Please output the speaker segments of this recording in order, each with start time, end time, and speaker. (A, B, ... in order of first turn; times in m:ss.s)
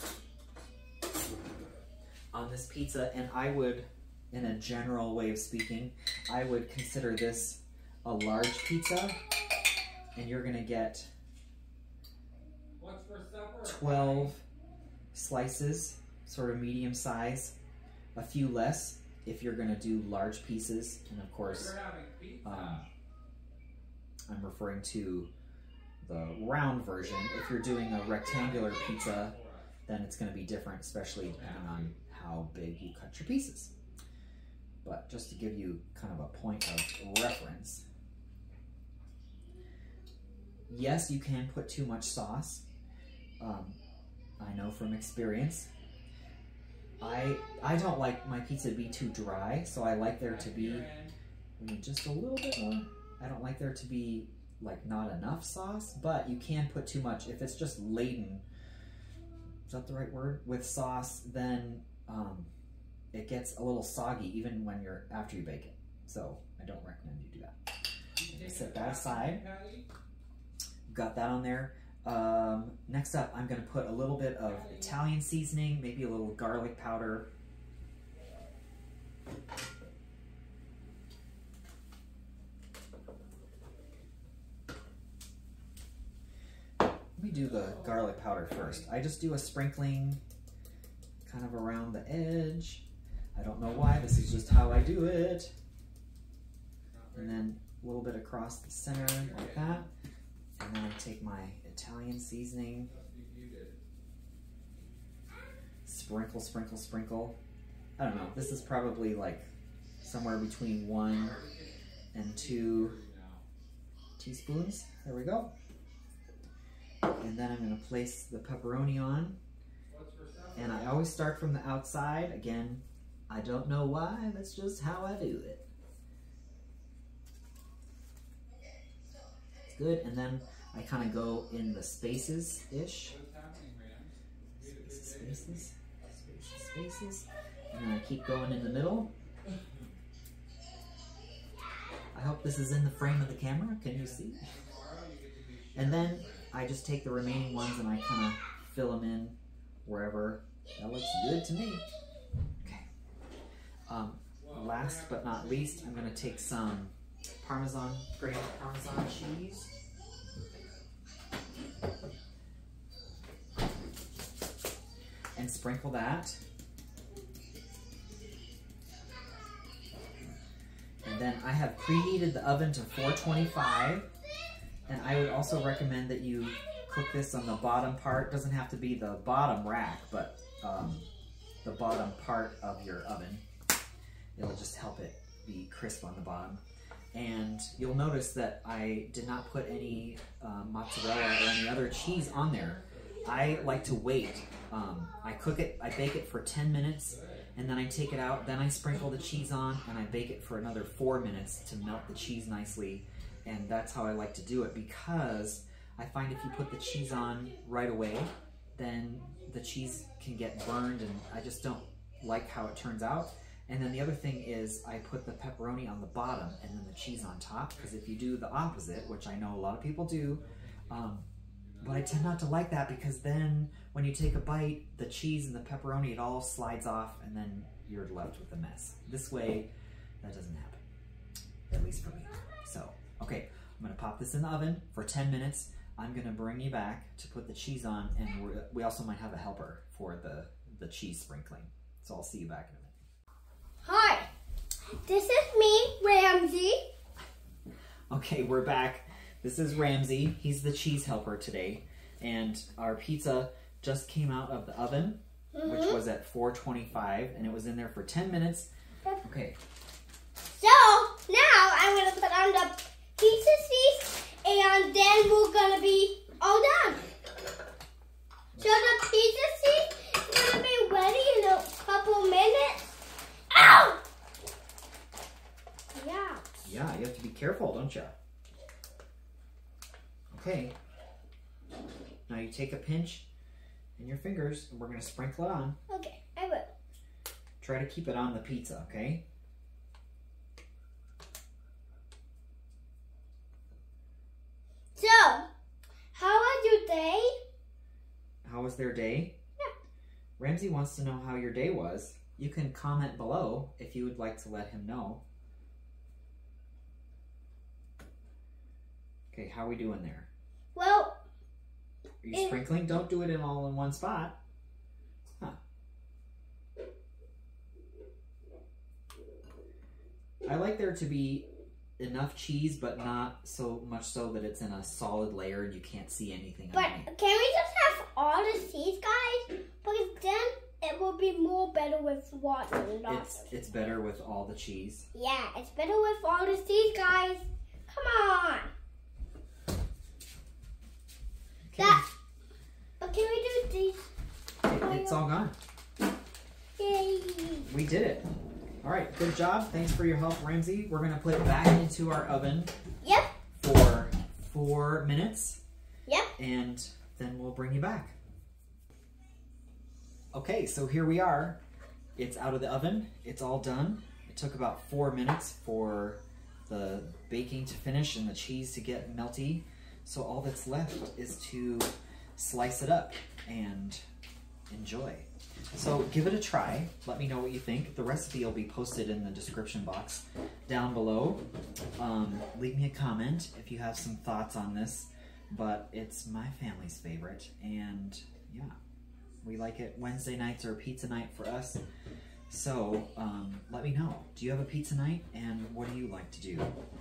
0:02.3-0:09.2 A
0:10.1-0:11.1 A
0:12.8-0:14.3 B
0:13.6-0:14.4 A
0:15.1-0:17.5 A
0:18.1-0:21.8 A
0:21.4-0:22.9 B
0:22.4-0:22.8 A
0:24.3-0:25.3 A
0:26.0-0:33.7 A
0:28.2-0:29.7 B
0:31.2-0:31.9 B
0:34.8-0:37.8 A
0:40.7-0:42.6 A
0:43.4-0:43.8 A
0:44.4-0:45.7 A
0:47.0-0:50.9 A
0:50.1-0:51.1 B
0:51.6-0:58.4 A
0:59.7-1:02.5 A
1:03.1-1:07.5 A
1:08.2-1:09.9 B
1:08.3-1:09.4 A
1:10.9-1:17.3 A
1:14.4-1:15.0 B
1:27.2-1:30.2 A
1:27.3-1:28.9 B
1:31.2-1:32.8 A
1:33.3-1:35.5 A
1:33.7-1:35.3 B
1:36.9-1:37.5 B
1:37.1-1:39.9 A
1:38.9-1:39.9 B
1:40.6-1:42.9 A
1:42.9-1:43.8 B
1:45.8-1:47.4 A
1:48.0-1:49.5 A
1:50.0-1:51.4 A
1:51.0-1:53.4 B
1:52.1-1:53.0 A
1:54.2-1:55.5 A
1:57.2-1:59.4 A
1:59.9-2:01.0 B
2:00.5-2:05.6 A
2:09.7-2:13.2 A
2:13.0-2:15.7 B
2:14.6-2:19.1 A
2:22.1-2:24.5 A
2:23.8-2:26.5 B
2:25.7-2:31.8 A
2:32.6-2:32.8 A
2:33.9-2:39.7 A
2:34.4-2:36.6 B
2:45.3-2:46.4 A
2:51.0-2:54.1 A
2:54.8-2:55.4 B
2:54.9-3:01.1 A
3:01.6-3:03.4 A
3:04.4-3:06.6 A
3:07.1-3:41.3 A
3:12.0-3:14.0 B
3:17.0-3:17.5 B
3:40.3-3:41.0 B
3:41.6-3:42.1 B
3:41.8-3:49.7 A
3:50.2-3:50.8 A
3:51.7-4:02.9 A
4:03.8-4:04.3 C
4:04.8-4:06.9 C
4:08.1-4:18.7 A
4:15.5-4:16.0 C
4:19.2-4:19.6 A
4:20.5-4:27.1 C
4:28.6-4:33.0 C
4:33.5-4:34.0 C
4:35.9-4:36.4 C
4:36.6-4:38.1 A
4:40.3-4:40.7 A
4:42.3-4:43.2 A
4:44.0-4:45.8 A
4:45.9-4:46.7 C
4:47.6-4:49.2 A
4:54.9-4:55.5 C
4:56.1-4:57.3 C
4:58.4-4:59.4 A
5:00.4-5:05.2 A
5:09.3-5:10.3 A
5:10.7-5:11.2 C
5:12.2-5:14.3 A
5:12.3-5:12.6 C
5:20.4-5:21.5 A
5:22.0-5:27.1 A
5:26.7-5:33.5 C
5:33.0-5:35.1 A
5:35.1-5:38.7 C
5:41.6-5:42.0 A
5:43.0-5:44.1 C
5:44.6-5:45.2 C
5:44.6-5:45.6 A
5:46.8-5:47.7 C
5:47.7-5:48.2 A
5:48.8-5:52.7 A
5:53.0-5:53.3 C
5:53.6-5:55.6 A
5:56.0-5:56.3 C
5:56.4-5:58.2 A
6:00.3-6:01.6 A
6:02.2-6:14.0 A
6:14.7-6:21.4 A
6:22.0-6:28.7 A
6:29.4-6:31.8 A
6:32.5-6:36.7 A